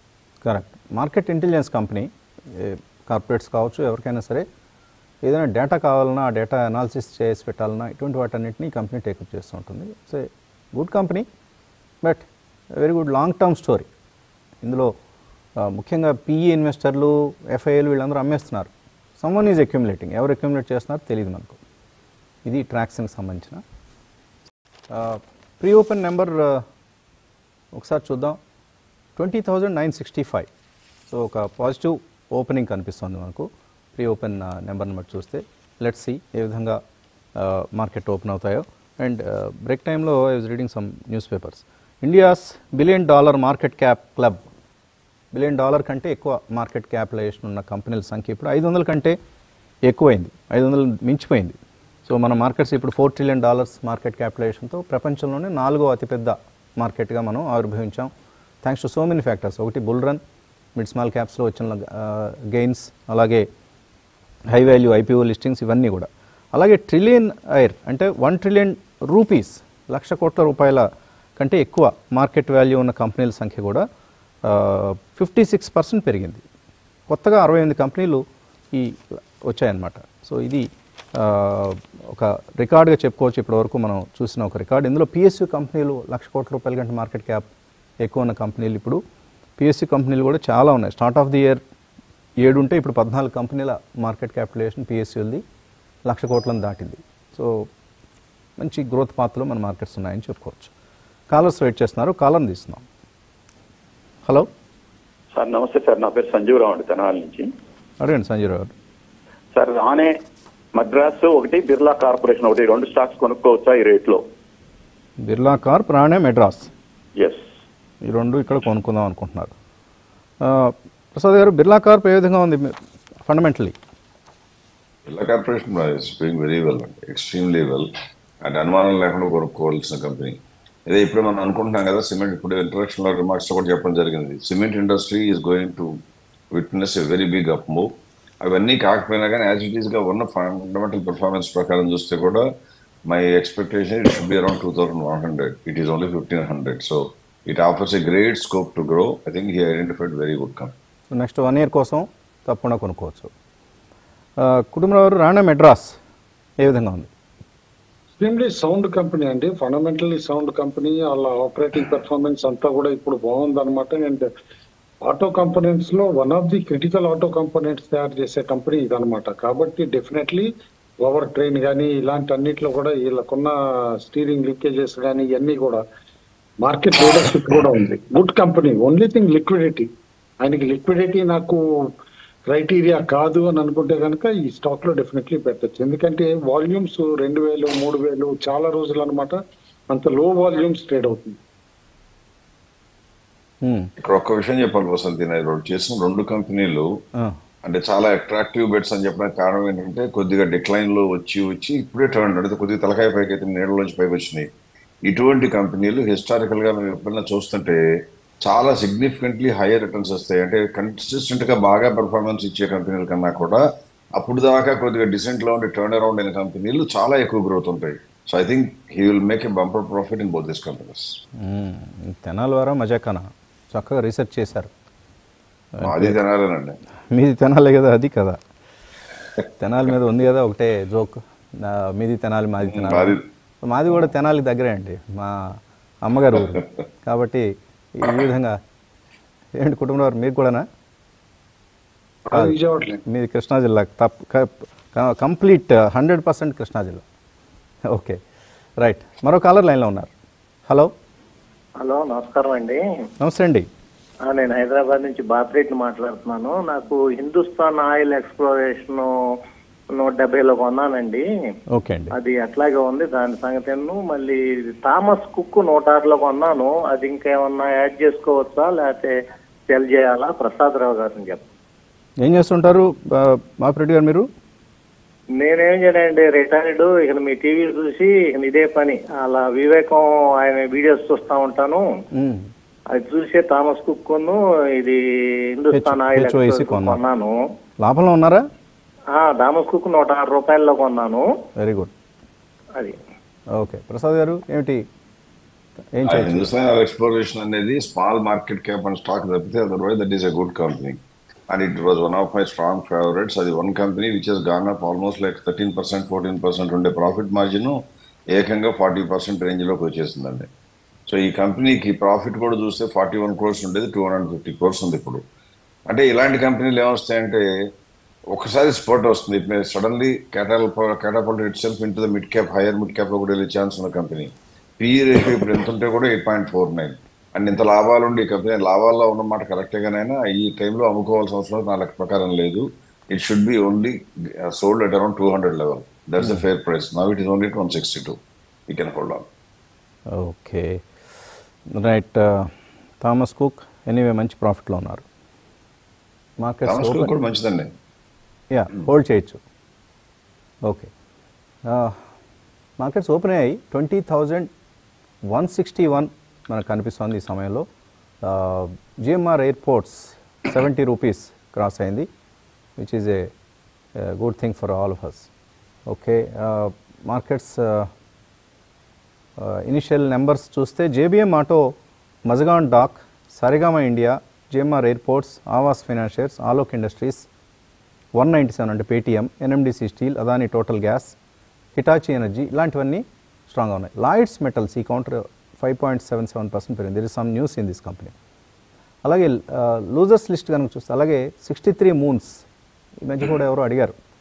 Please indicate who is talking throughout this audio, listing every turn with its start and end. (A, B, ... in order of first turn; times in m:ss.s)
0:00.4-0:04.4 A
0:05.2-0:11.2 A
0:12.0-0:13.9 A
0:14.6-0:14.9 A
0:15.6-0:21.6 A
0:22.4-0:23.6 A
0:24.9-0:26.6 A
0:27.7-0:28.4 A
0:29.2-0:30.5 A
0:31.1-0:36.8 A
0:37.4-0:44.4 A
0:45.3-0:49.1 A
0:49.9-0:58.1 A
0:58.6-1:00.2 A
1:00.8-1:03.4 A
1:04.5-1:13.8 A
1:14.4-1:16.4 A
1:17.1-1:27.4 A
1:28.0-1:29.0 A
1:29.6-1:31.6 A
1:32.4-1:35.4 A
1:36.0-1:37.7 A
1:38.6-1:40.7 A
1:41.3-1:42.8 A
1:45.3-1:47.5 B
1:48.0-1:48.7 A
1:49.5-1:50.1 B
1:50.7-1:54.2 B
1:55.2-1:56.7 A
1:57.2-1:57.4 B
1:58.0-1:59.5 A
2:00.4-2:02.7 A
2:03.2-2:03.7 A
2:05.0-2:07.9 C
2:08.4-2:16.0 C
2:16.5-2:22.5 C
2:23.1-2:30.7 C
2:31.1-2:33.3 A
2:34.4-2:36.0 A
2:36.6-2:37.1 A
2:38.2-2:44.3 D
2:45.0-2:50.5 D
2:51.0-2:55.8 D
2:56.6-2:59.9 D
3:00.4-3:01.6 D
3:02.5-3:09.4 D
3:09.9-3:11.4 D
3:13.6-3:13.9 A
3:14.0-3:16.9 C
3:17.6-3:24.5 C
3:25.0-3:27.8 C
3:28.4-3:33.6 C
3:34.2-3:41.1 C
3:41.4-3:44.7 A
3:45.8-3:46.2 A
3:45.8-3:46.8 C
3:47.1-3:48.4 A
3:49.6-3:58.6 A
3:52.6-3:53.2 C
3:59.6-4:00.7 A
4:02.3-4:03.0 D
4:02.3-4:07.0 A
4:07.9-4:08.2 A
4:08.8-4:10.1 A
4:10.7-4:10.9 A
4:11.8-4:12.8 E
4:13.2-4:13.7 A
4:14.3-4:19.1 E
4:19.9-4:21.2 E
4:21.7-4:22.1 A
4:22.1-4:29.1 E
4:29.7-4:31.4 E
4:32.2-4:34.3 A
4:35.4-4:41.8 E
4:42.1-4:42.5 A
4:42.9-4:45.0 E
4:45.5-4:47.3 E
4:45.7-4:47.0 A
4:47.8-4:48.4 A
4:49.1-4:51.3 E
4:51.6-4:51.9 A
4:53.5-4:54.8 A
4:55.9-4:56.5 A
4:56.0-5:10.5 C
5:11.1-5:15.2 C
5:15.9-5:17.4 C
5:18.3-5:39.3 C
5:40.1-5:40.8 A
5:41.7-5:45.0 A
5:46.4-5:47.1 A
5:46.6-5:47.7 C
5:48.5-5:49.4 A
5:50.6-5:50.9 A
5:51.6-5:52.0 A
5:52.8-5:54.5 A
5:55.3-5:57.6 A
5:58.2-6:02.1 A
6:02.8-6:03.3 A
6:04.0-6:05.3 A
6:05.9-6:07.9 A
6:09.4-6:11.7 A
6:12.3-6:17.2 A
6:18.1-6:21.2 A
6:21.8-6:28.1 A
6:29.0-6:32.4 A
6:33.0-6:33.9 A